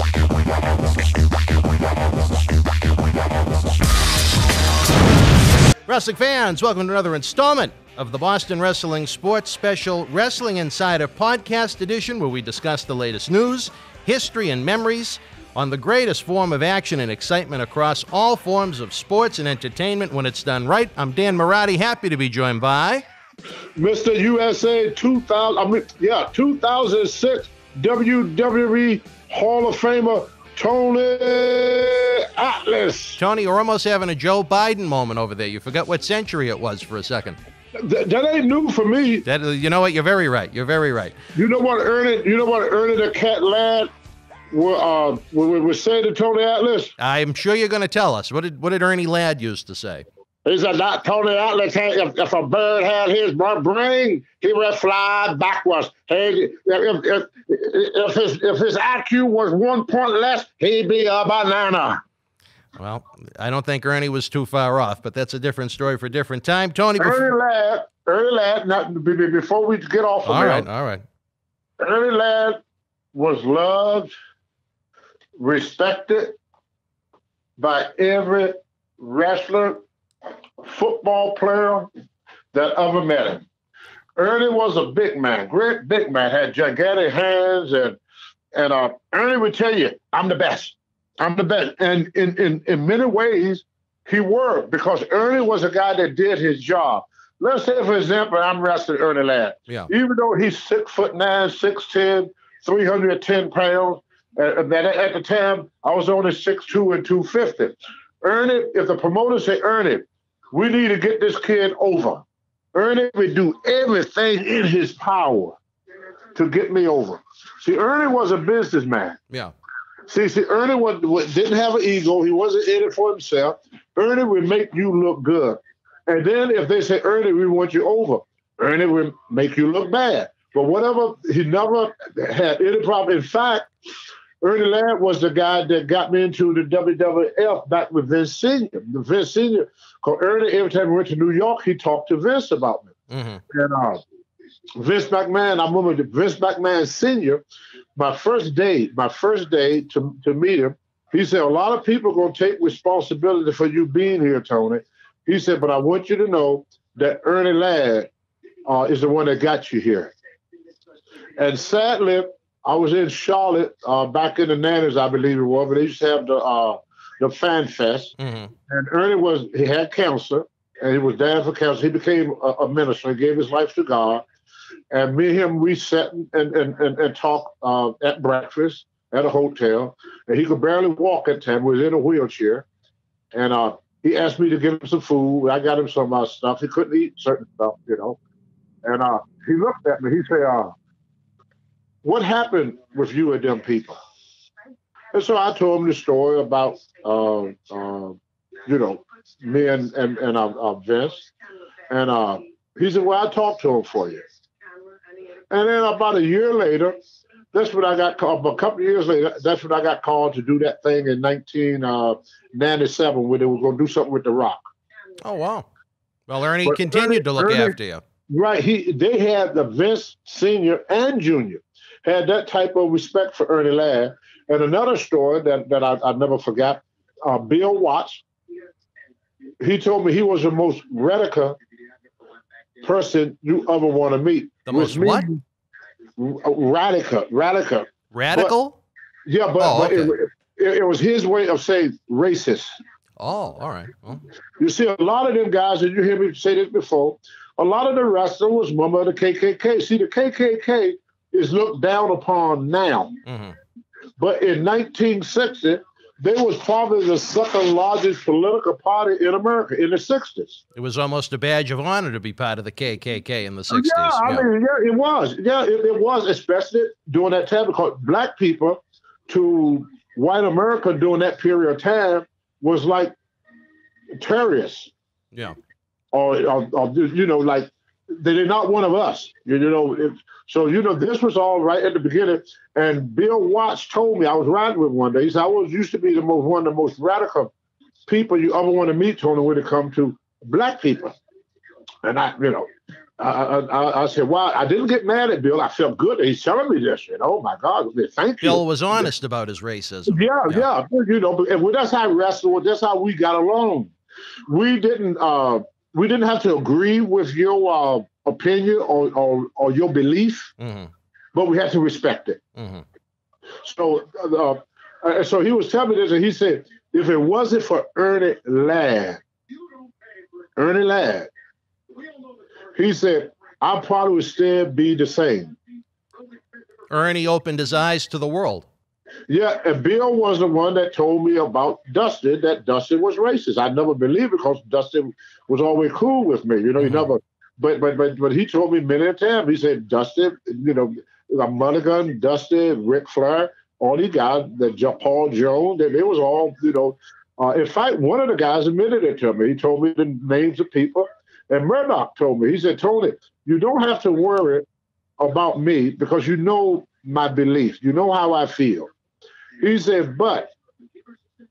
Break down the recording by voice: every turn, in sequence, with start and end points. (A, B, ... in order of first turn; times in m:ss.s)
0:05.9-0:23.0 A
0:23.8-0:33.2 B
0:33.2-0:37.4 A
0:37.8-0:39.3 B
0:39.2-0:41.2 A
0:41.4-0:43.9 B
0:44.5-0:46.9 B
0:47.0-0:50.0 A
0:50.4-1:02.0 B
1:02.8-1:07.3 A
1:07.0-1:10.7 B
1:10.2-1:11.0 A
1:11.8-1:12.6 B
1:13.1-1:14.1 B
1:15.4-1:16.4 B
1:17.6-1:19.8 B
1:20.6-1:21.9 B
1:22.5-1:23.4 B
1:24.2-1:28.0 B
1:28.6-1:55.6 B
1:56.4-1:59.2 B
2:00.1-2:13.7 B
2:14.4-2:22.9 B
2:23.1-2:23.4 A
2:23.5-2:24.0 B
2:24.8-2:27.4 B
2:28.0-2:38.1 B
2:38.7-2:40.1 B
2:41.4-2:48.1 B
2:48.2-2:48.5 A
2:48.7-2:54.2 B
2:54.9-3:02.7 B
3:03.3-3:08.2 B
3:08.8-3:10.7 B
3:12.0-3:14.0 B
3:15.1-3:21.3 B
3:21.9-3:24.2 B
3:25.5-3:27.0 B
3:27.5-3:34.7 B
3:35.2-3:35.7 A
3:36.3-3:38.0 A
3:36.6-3:37.8 B
3:38.3-3:48.2 B
3:49.6-3:51.6 B
3:52.8-3:55.4 B
3:54.7-3:55.3 A
3:56.2-3:58.5 B
3:58.1-3:58.8 A
3:59.3-4:02.8 B
3:59.6-4:00.1 A
4:03.2-4:04.2 A
4:04.6-4:13.1 B
4:13.3-4:13.6 A
4:14.2-4:20.6 B
4:20.8-4:24.5 A
4:23.7-4:33.2 B
4:34.2-4:34.9 B
4:36.1-4:47.5 B
4:48.1-4:51.2 B
4:52.0-4:52.7 B
4:53.2-4:59.1 B
4:58.4-5:00.7 A
5:00.1-5:03.9 B
5:04.5-5:10.5 B
5:10.6-5:10.9 A
5:11.3-5:12.4 B
5:12.6-5:12.8 A
5:13.6-5:19.2 B
5:20.6-5:21.3 B
5:22.8-5:25.6 B
5:26.9-5:28.7 A
5:29.3-5:54.7 B
5:36.8-5:37.1 A
5:55.2-5:58.9 B
5:59.6-6:00.5 B